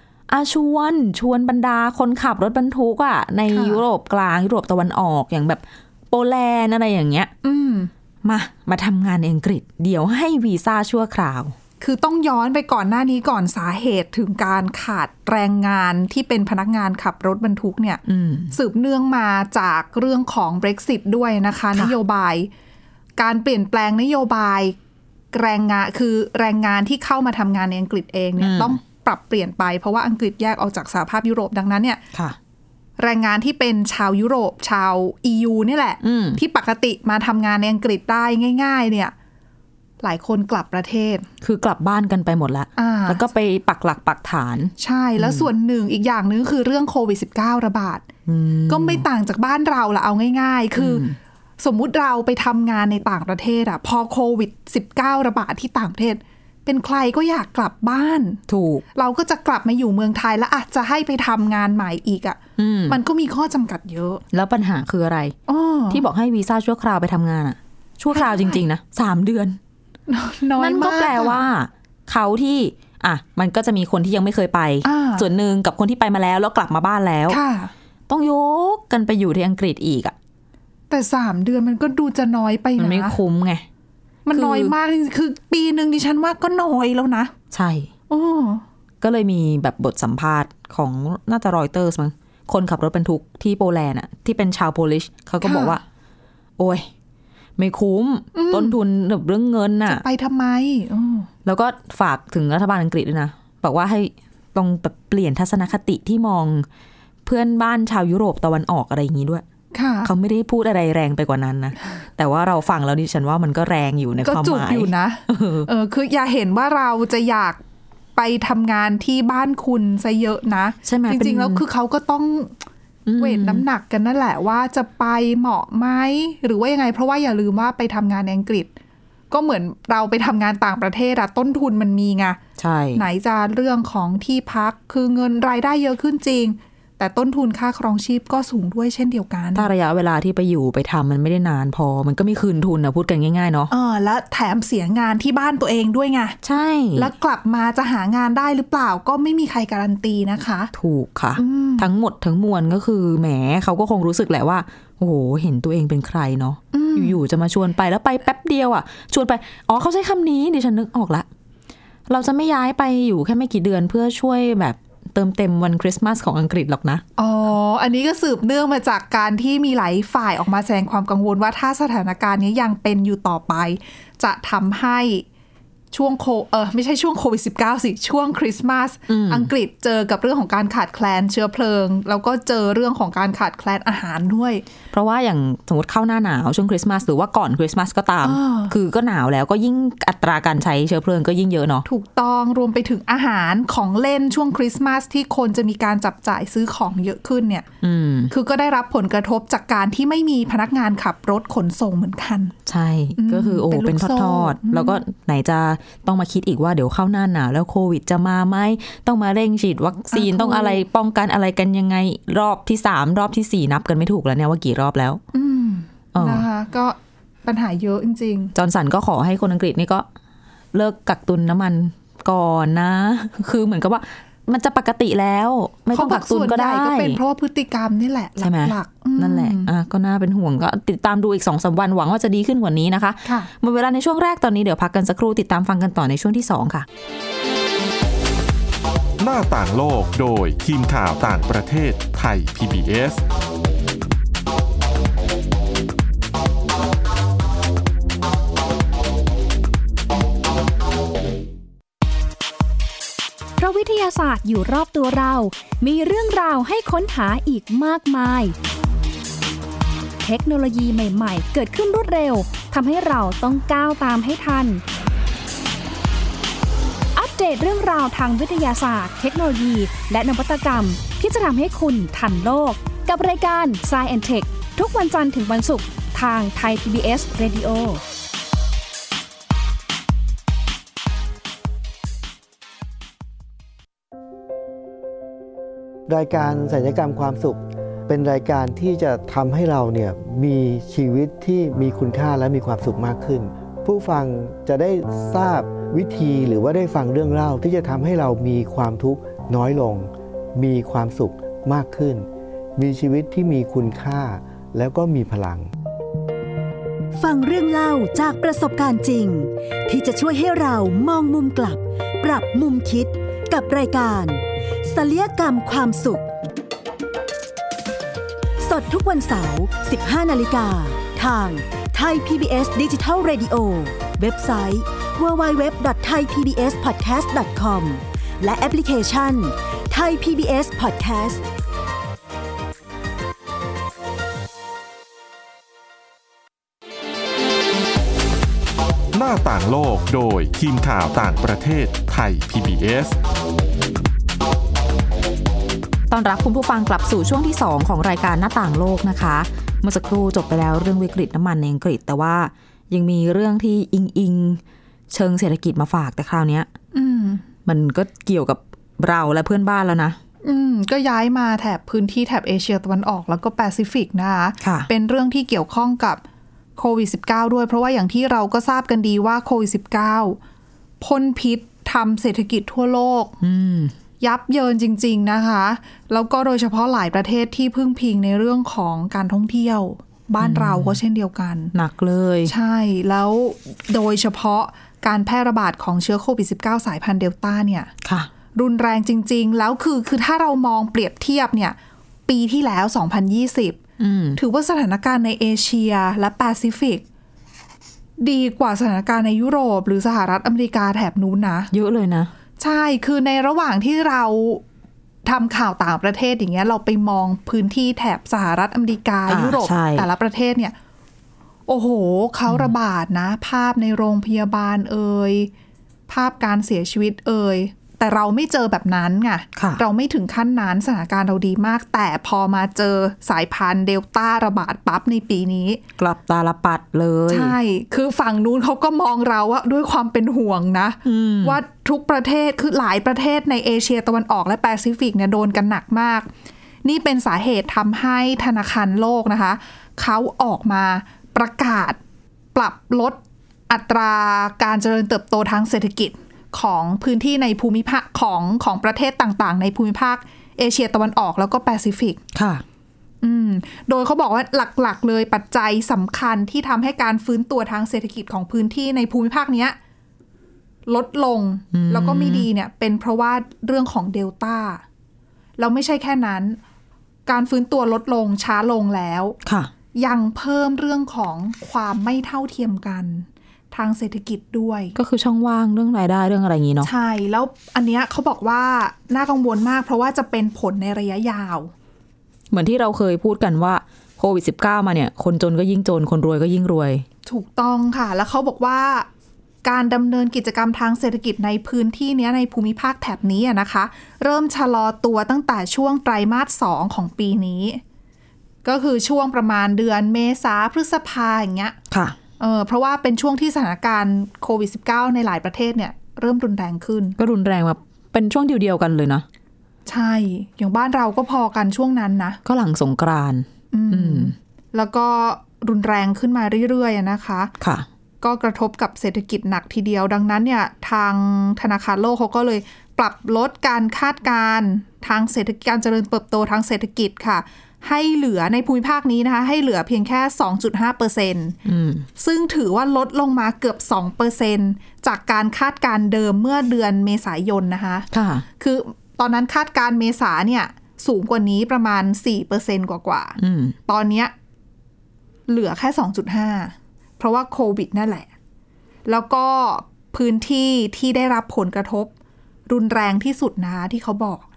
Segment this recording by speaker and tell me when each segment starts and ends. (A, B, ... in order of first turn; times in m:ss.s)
0:00.3-0:07.3 A
0:03.5-0:03.8 B
0:07.4-0:07.9 B
0:08.2-0:11.5 A
0:11.8-0:22.5 B
0:18.1-0:18.5 A
0:23.2-0:24.7 B
0:25.3-0:32.0 B
0:28.4-0:28.8 A
0:33.0-0:39.1 B
0:36.0-0:36.4 A
0:40.0-0:41.3 B
0:41.4-0:45.5 A
0:42.8-0:43.2 B
0:44.8-0:48.0 B
0:48.3-0:49.0 A
0:48.7-0:51.0 B
0:50.8-0:51.2 A
0:51.6-0:58.4 B
0:58.5-0:58.8 A
0:58.9-1:04.2 B
1:02.6-1:03.0 A
1:04.3-1:05.4 A
1:05.5-1:06.0 B
1:05.9-1:09.6 A
1:08.1-1:08.6 B
1:10.1-1:11.4 B
1:10.6-1:17.4 A
1:14.8-1:15.2 B
1:17.3-1:17.7 B
1:18.1-1:20.1 A
1:20.9-1:23.2 B
1:22.8-1:23.6 A
1:24.2-1:27.3 B
1:24.3-1:24.7 A
1:27.5-1:27.9 A
1:28.1-1:28.6 B
1:29.0-1:35.8 A
1:35.4-1:35.8 B
1:36.6-1:36.9 A
1:37.6-1:40.0 A
1:38.3-1:38.8 B
1:39.9-1:41.3 B
1:41.4-1:46.6 A
1:47.2-1:49.4 A
1:49.7-1:50.1 B
1:50.0-1:55.7 A
1:54.2-1:57.6 B
1:58.2-2:02.6 B
2:00.8-2:01.6 A
2:03.0-2:03.6 A
2:03.2-2:08.7 B
2:09.3-2:12.4 B
2:12.6-2:13.0 A
2:12.9-2:19.7 B
2:19.5-2:23.7 A
2:23.7-2:26.4 B
2:26.4-2:27.1 A
2:27.0-2:30.7 B
2:30.7-2:41.2 A
2:31.4-2:31.9 B
2:36.7-2:37.2 B
2:42.1-2:47.0 A
2:47.2-2:55.2 B
2:55.9-3:04.6 B
2:59.1-2:59.5 A
3:04.9-3:11.8 A
3:08.2-3:08.7 B
3:11.8-3:17.6 B
3:17.8-3:18.3 A
3:18.3-3:22.5 B
3:22.7-3:35.2 A
3:23.2-3:25.0 B
3:30.1-3:30.8 B
3:35.3-3:38.5 B
3:36.1-3:36.4 A
3:38.5-3:40.0 A
3:40.7-3:47.2 A
3:45.9-3:49.7 B
3:48.4-3:56.8 A
3:53.2-3:53.5 B
3:59.2-4:03.2 C
4:13.6-4:18.5 D
4:20.2-4:24.8 D
4:27.1-4:38.0 D
4:46.1-5:05.7 E
5:07.2-5:16.3 F
5:18.6-5:31.4 F
5:39.1-5:43.2 C
5:46.1-5:56.7 A
5:56.9-5:57.4 B
5:57.6-6:00.2 A
6:00.4-6:06.2 B
6:04.6-6:04.9 A
6:06.8-6:10.4 B
6:11.0-6:13.3 B
6:13.4-6:13.9 A
6:14.2-6:21.7 B
6:20.4-6:21.0 A
6:21.7-6:22.5 A
6:22.4-6:27.9 B
6:28.0-6:28.3 A
6:28.5-6:33.8 B
6:34.0-6:34.4 A
6:34.4-6:37.0 B
6:38.2-6:41.7 B
6:41.7-6:42.3 A
6:42.6-6:44.6 B
6:45.2-6:50.7 B
6:49.3-6:50.1 A
6:51.7-6:55.5 B
6:52.5-6:52.7 A
6:56.1-7:05.8 B
6:59.6-6:59.8 A
7:06.0-7:07.6 A
7:07.3-7:16.3 B
7:11.0-7:11.6 A
7:16.8-7:22.0 B
7:22.5-7:32.2 B
7:32.3-7:32.6 A
7:33.2-7:39.8 B
7:40.9-7:44.8 B
7:41.7-7:42.5 A
7:45.6-7:46.6 B
7:47.2-7:49.4 B
7:49.4-7:49.7 A
7:50.0-7:54.9 B
7:55.0-7:56.9 A
7:56.8-8:01.7 B
8:02.5-8:07.0 A
8:07.2-8:09.1 B
8:09.6-8:17.8 B
8:18.6-8:21.8 B
8:21.9-8:22.2 A
8:22.4-8:27.2 B
8:27.2-8:29.2 A
8:29.9-8:32.4 B
8:32.4-8:34.3 A
8:33.7-8:37.5 B
8:37.6-8:37.8 A
8:38.2-8:51.6 B
8:51.6-8:52.0 A
8:52.2-9:04.3 B
8:58.1-8:58.4 A
9:03.4-9:03.8 A
9:05.5-9:08.3 B
9:09.1-9:12.1 B
9:12.7-9:14.4 B